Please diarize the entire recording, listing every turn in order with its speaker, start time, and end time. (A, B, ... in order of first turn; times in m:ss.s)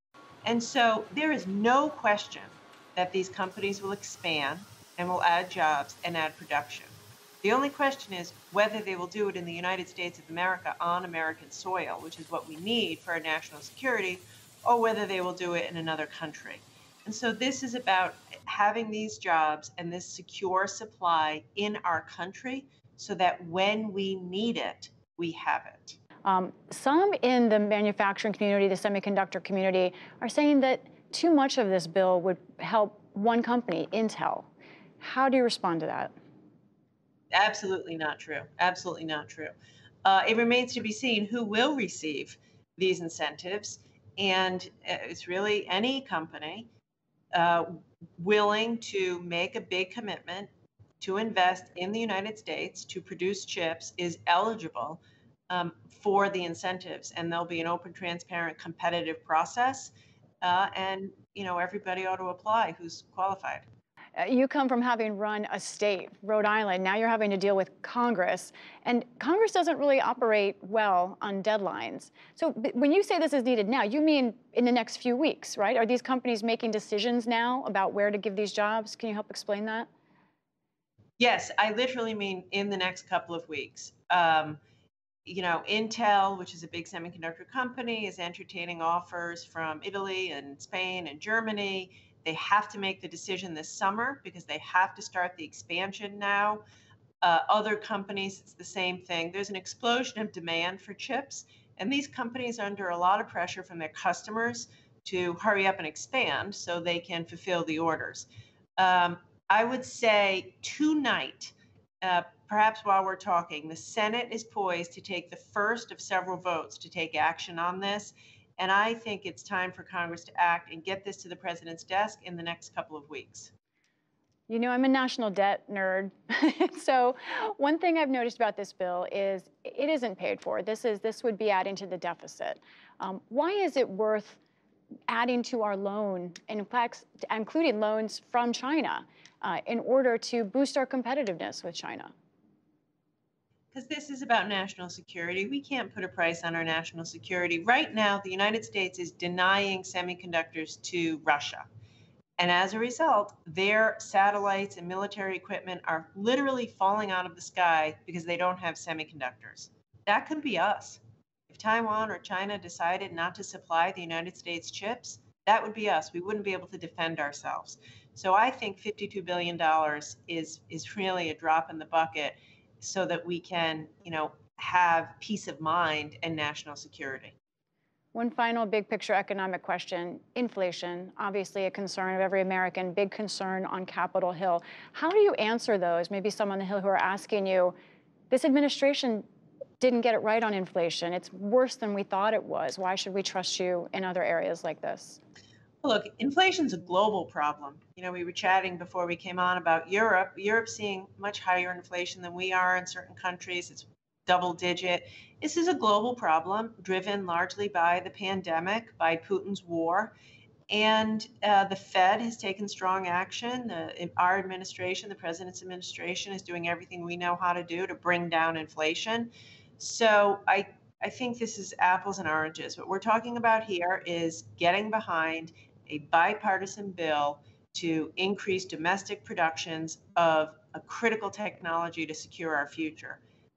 0:00.4-0:26.0 A
0:26.2-0:34.5 B
0:35.0-0:36.1 B
0:37.3-0:39.5 A
0:40.0-0:46.7 A
0:47.3-1:03.6 A
1:04.2-1:19.9 B
1:21.2-1:24.6 A
1:25.2-1:36.6 A
1:37.2-2:03.5 A
2:04.5-2:14.4 B
2:15.1-2:22.1 B
2:23.7-2:31.6 A
2:32.4-2:57.3 A
2:58.1-3:07.7 B
3:08.3-3:09.2 B
3:09.8-3:15.2 B
3:15.8-3:30.1 A
3:30.7-3:53.2 A